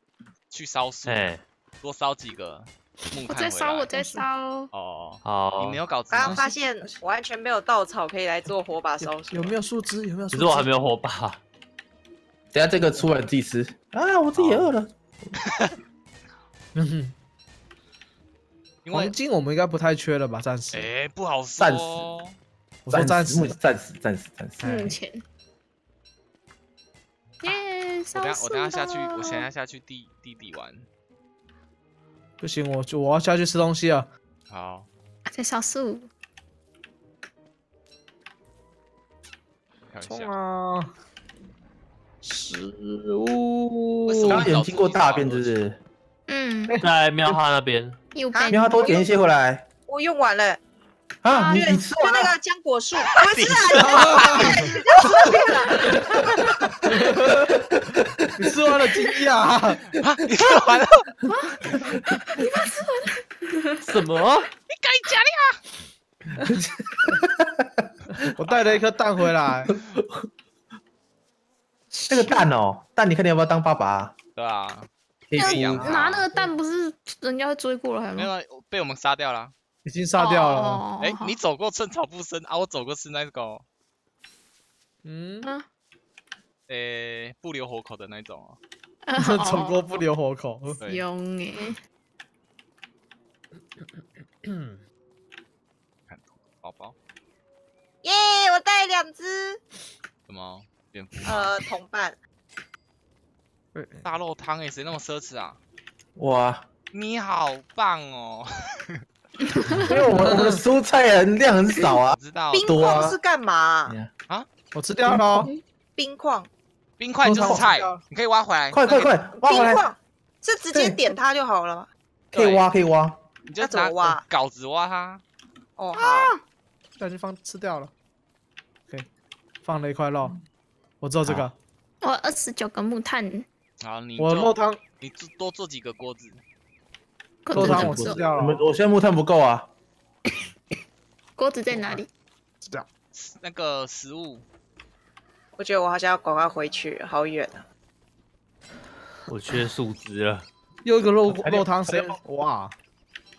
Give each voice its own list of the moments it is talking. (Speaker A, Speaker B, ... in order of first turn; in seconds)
Speaker A: 0.5-3.9, 4.7-6.4, 18.8-19.1, 20.7-22.4, 28.1-30.9, 34.5-34.9, 39.9-40.3, 44.1-45.5, 53.0-54.7, 60.0-61.1, 64.7-65.6, 74.3-74.9, 75.4-76.2, 78.2-79.5, 81.0-83.6, 86.7-88.6, 90.8-91.0, 96.1-96.9, 100.3-101.5, 104.0-105.6, 106.9-108.5, 112.1-112.9, 117.0-119.2, 122.3-122.7, 123.5-125.2, 133.8-136.4, 143.1-144.4
Speaker B: 1.0-1.4, 5.2-6.3, 10.3-11.4, 14.3-14.7, 46.8-48.0, 63.9-64.5, 149.3-150.4
Speaker C: 3.3-4.7, 24.6-25.2, 27.4-29.4, 35.3-36.1, 46.3-46.8, 48.1-49.0, 51.3-51.8, 61.3-63.9, 71.9-72.5, 75.4-78.3, 80.1-81.3, 89.1-89.9, 90.8-91.8, 109.4-109.8, 115.1-115.6, 125.9-126.3, 132.0-133.4, 137.4-138.3, 141.4-142.1
Speaker D: 3.9-4.2, 6.3-6.5, 9.0-10.7, 16.7-17.1, 18.9-20.9, 22.8-23.6, 24.6-24.9, 32.4-34.1, 40.0-40.9, 42.2-44.4, 57.0-57.4, 58.4-60.0, 68.3-69.7, 75.8-76.5, 79.8-80.9, 85.0-85.5, 89.2-90.8, 94.4-94.8, 103.7-104.1, 110.3-110.6, 114.7-115.5, 117.2-118.0, 127.0-127.9, 129.6-130.4, 131.0-131.5, 134.2-134.8, 137.5-138.7, 141.7-142.0, 150.8-152.7
Speaker E: 6.1-9.6, 48.3-49.1, 49.9-50.6, 51.5-56.6, 98.0-99.6, 101.2-102.2, 112.5-114.0, 116.0-116.5, 119.3-121.9, 123.6-124.2, 125.8-126.3, 145.6-147.6
Speaker F: 12.5-15.3, 21.6-22.1, 22.9-24.7, 44.3-45.8, 48.5-49.6, 51.2-52.3, 66.9-67.8, 72.1-74.1, 75.3-76.0, 106.2-106.6, 109.7-113.2, 117.3-117.7, 118.7-119.9, 120.7-121.0, 122.3-123.2, 137.5-139.7, 151.3-152.2